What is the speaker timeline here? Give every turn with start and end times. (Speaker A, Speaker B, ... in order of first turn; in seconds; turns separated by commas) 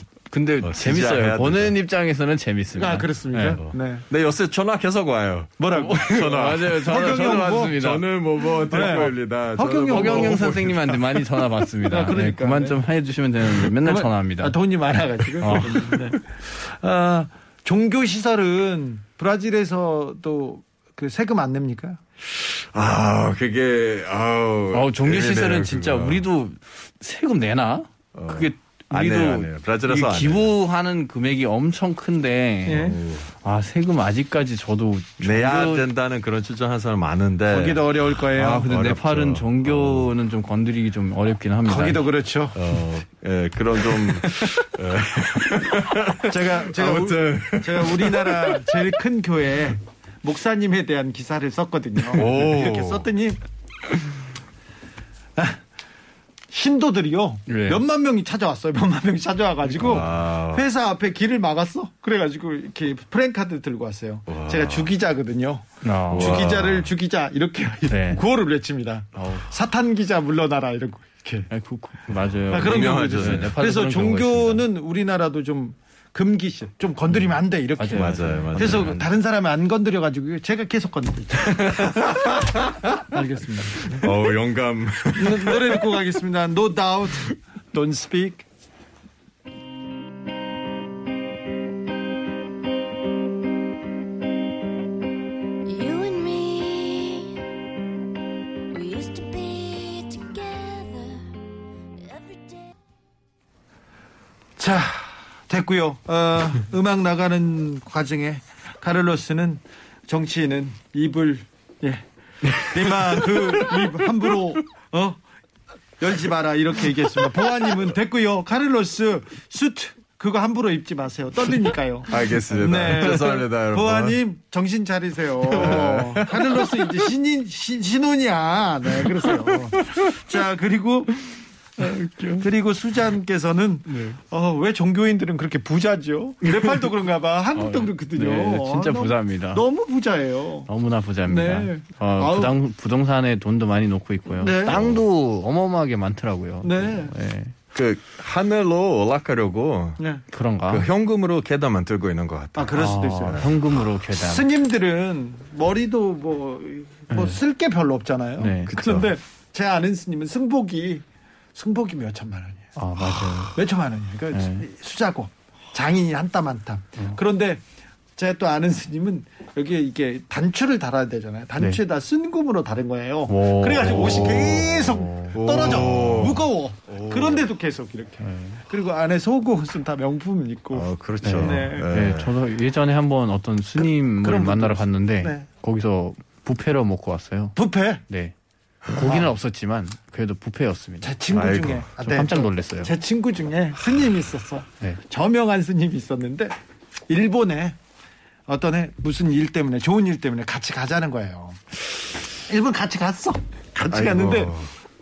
Speaker A: 0.3-3.6, Speaker B: 0.6-1.7, Speaker C: 2.7-4.0, Speaker B: 4.1-11.0, Speaker C: 5.6-7.8, Speaker A: 5.7-8.0, Speaker C: 8.7-10.6, Speaker A: 9.9-14.5, Speaker C: 11.8-12.8, Speaker C: 13.8-22.0, Speaker A: 15.4-16.1, Speaker B: 22.3-26.2, Speaker A: 24.7-35.8, Speaker B: 28.1-30.5, Speaker C: 32.6-33.0, Speaker B: 32.8-33.3, Speaker B: 35.2-40.1, Speaker C: 37.5-38.7, Speaker A: 38.4-42.0, Speaker C: 41.6-42.6, Speaker B: 42.5-48.8, Speaker A: 44.2-44.5, Speaker C: 46.2-53.4, Speaker B: 52.1-53.1, Speaker C: 56.5-71.5, Speaker A: 57.5-57.8, Speaker B: 59.8-60.6, Speaker B: 64.3-64.9, Speaker A: 65.8-66.4, Speaker B: 66.1-66.9, Speaker A: 67.9-68.2, Speaker A: 69.2-69.4, Speaker A: 71.5-74.6, Speaker B: 72.5-73.5, Speaker C: 72.5-82.3, Speaker A: 77.8-79.0, Speaker B: 77.9-79.0, Speaker B: 81.6-83.0, Speaker C: 83.1-84.1, Speaker B: 83.9-85.8, Speaker C: 85.2-88.5, Speaker D: 95.6-97.5, Speaker D: 98.7-101.4, Speaker D: 101.9-102.7, Speaker C: 104.6-115.2, Speaker C: 116.0-131.2, Speaker B: 122.1-124.2, Speaker B: 125.5-126.7, Speaker A: 131.8-132.5, Speaker C: 132.4-140.7, Speaker A: 133.9-134.2, Speaker A: 137.5-139.6, Speaker A: 140.7-147.5, Speaker C: 141.2-142.5, Speaker C: 144.3-144.9, Speaker B: 144.7-145.0, Speaker C: 146.6-147.1, Speaker B: 147.7-150.0, Speaker C: 150.0-150.2, Speaker A: 150.3-150.9, Speaker B: 150.7-153.4, Speaker C: 152.5-153.4, Speaker A: 152.8-154.5, Speaker C: 154.1-162.7, Speaker A: 157.1-157.4, Speaker A: 158.4-158.7, Speaker B: 158.7-159.1, Speaker A: 162.8-163.6, Speaker C: 163.5-167.6, Speaker A: 164.3-164.7, Speaker C: 168.2-181.9, Speaker A: 173.3-174.3, Speaker B: 173.9-177.4, Speaker A: 175.0-175.3, Speaker A: 178.2-178.6, Speaker B: 180.7-182.3, Speaker A: 181.2-187.6, Speaker C: 184.2-185.4, Speaker C: 187.6-188.0, Speaker A: 188.1-188.3, Speaker A: 188.9-191.1, Speaker C: 189.0-189.3, Speaker C: 191.0-196.5, Speaker B: 191.3-191.9, Speaker A: 192.0-192.9, Speaker C: 197.1-197.8, Speaker C: 198.5-201.8, Speaker C: 202.4-204.6, Speaker B: 203.9-204.7